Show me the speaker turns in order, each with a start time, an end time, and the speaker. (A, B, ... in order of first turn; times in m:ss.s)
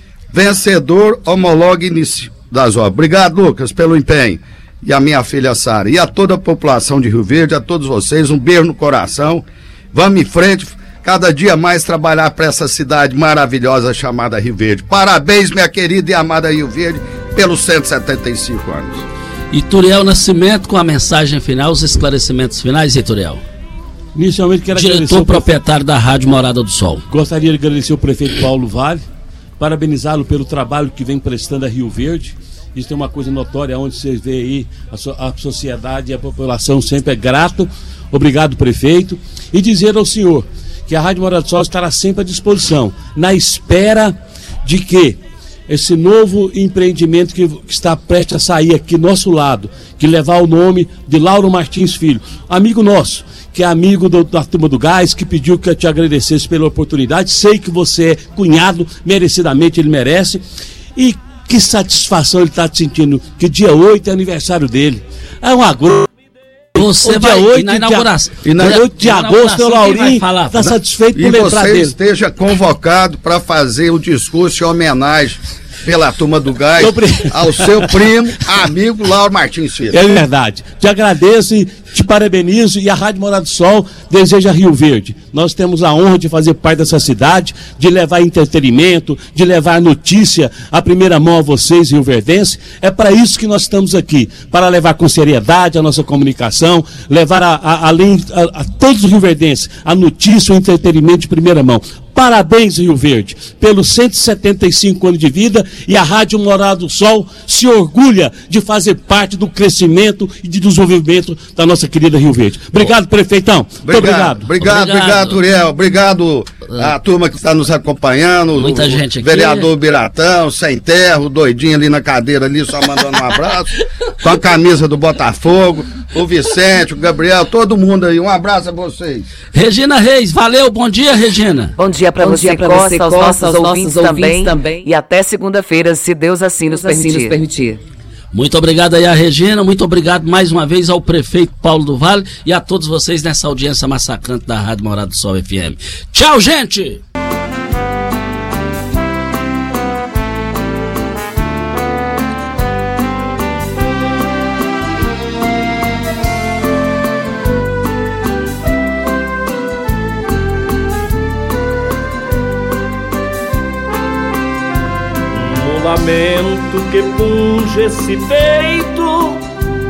0:00.3-0:19.0 A
0:19.5-0:23.4 B
0:24.1-0:25.5 C
0:24.7-0:27.0 B
0:27.1-0:29.0 C
0:29.6-1:00.4 C
1:01.0-1:06.1 C
1:06.7-1:10.7 B
1:06.8-1:11.9 C
1:11.1-1:20.1 A
1:16.8-1:18.1 C
1:19.9-1:54.5 C
1:53.8-2:09.2 A
1:54.6-1:55.4 B
1:58.6-1:59.7 B
2:09.5-2:11.7 B
2:11.8-2:17.8 D
2:18.3-2:27.0 B
2:45.5-2:49.2 E